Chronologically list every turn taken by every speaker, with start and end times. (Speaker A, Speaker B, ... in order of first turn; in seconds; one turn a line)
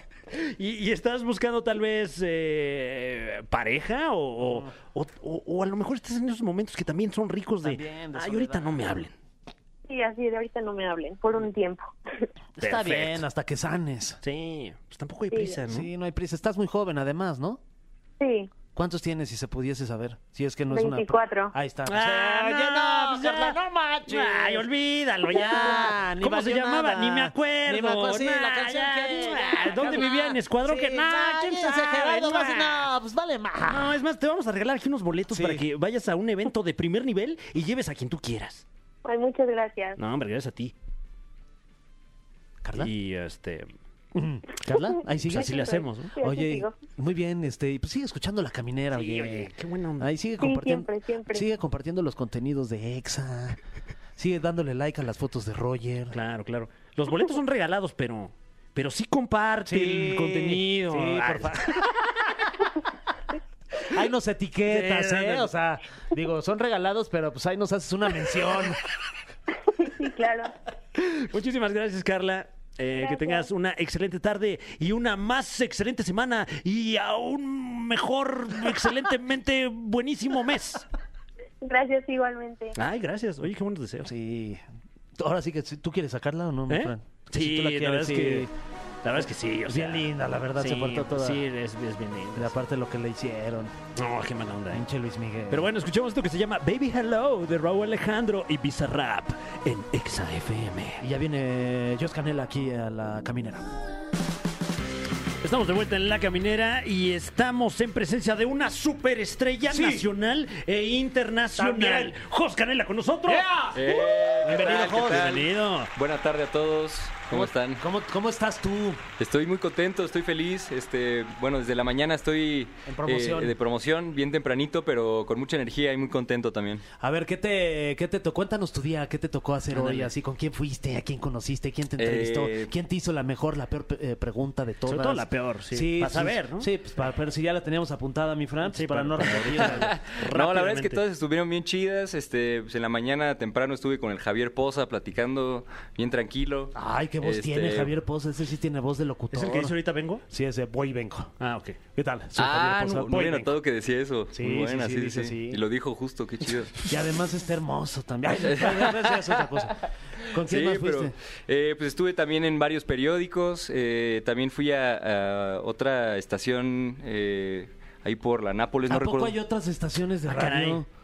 Speaker A: 0.3-9.1
Speaker B: 4.4-4.7
Speaker B: 7.6-9.0
Speaker C: 9.9-11.9
Speaker B: 12.6-14.2
Speaker A: 12.6-13.2
Speaker A: 14.2-15.9
Speaker C: 15.3-15.6
Speaker B: 15.7-17.6
Speaker C: 18.2-18.5
Speaker B: 18.8-24.7
Speaker C: 20.7-21.5
Speaker A: 21.9-32.9
Speaker B: 25.3-34.0
Speaker A: 33.6-38.6
Speaker B: 35.3-35.6
Speaker C: 39.0-40.0
Speaker A: 40.0-40.7
Speaker B: 42.6-42.9
Speaker A: 42.8-43.7
Speaker B: 44.1-53.6
Speaker A: 45.3-46.1
Speaker C: 45.3-46.7
Speaker A: 48.9-50.1
Speaker C: 50.4-51.5
Speaker B: 54.2-56.2
Speaker A: 56.1-61.9
Speaker B: 59.7-61.9
Speaker B: 63.9-68.8
Speaker A: 64.7-65.5
Speaker C: 69.7-70.5
Speaker A: 71.0-80.8
Speaker C: 73.0-73.5
Speaker C: 81.6-82.8
Speaker A: 82.8-84.1
Speaker B: 84.0-84.6
Speaker B: 85.2-88.5
Speaker A: 86.7-88.5
Speaker A: 89.0-92.6
Speaker B: 89.7-91.5
Speaker B: 92.3-93.7
Speaker A: 94.0-94.8
Speaker B: 94.7-95.7
Speaker A: 95.5-101.0
Speaker B: 101.0-103.8
Speaker A: 105.4-113.5
Speaker B: 109.7-110.0
Speaker B: 111.6-112.2
Speaker B: 113.3-115.3
Speaker D: 113.7-117.8
Speaker A: 114.5-115.9
Speaker B: 117.3-119.0
Speaker D: 119.2-126.8
Speaker B: 122.9-123.5
Speaker B: 127.0-139.9
Speaker A: 129.7-130.1
Speaker D: 132.0-132.7
Speaker A: 134.9-136.7
Speaker A: 138.7-141.0
Speaker D: 139.7-147.9
Speaker B: 146.8-149.8
Speaker A: 149.3-150.2
Speaker B: 150.3-151.3
Speaker A: 151.4-151.8
Speaker B: 152.0-153.5
Speaker D: 152.4-156.8
Speaker B: 154.3-155.6
Speaker B: 156.9-161.1
Speaker D: 158.5-159.2
Speaker D: 160.4-169.3
Speaker B: 168.9-170.9
Speaker A: 170.3-170.8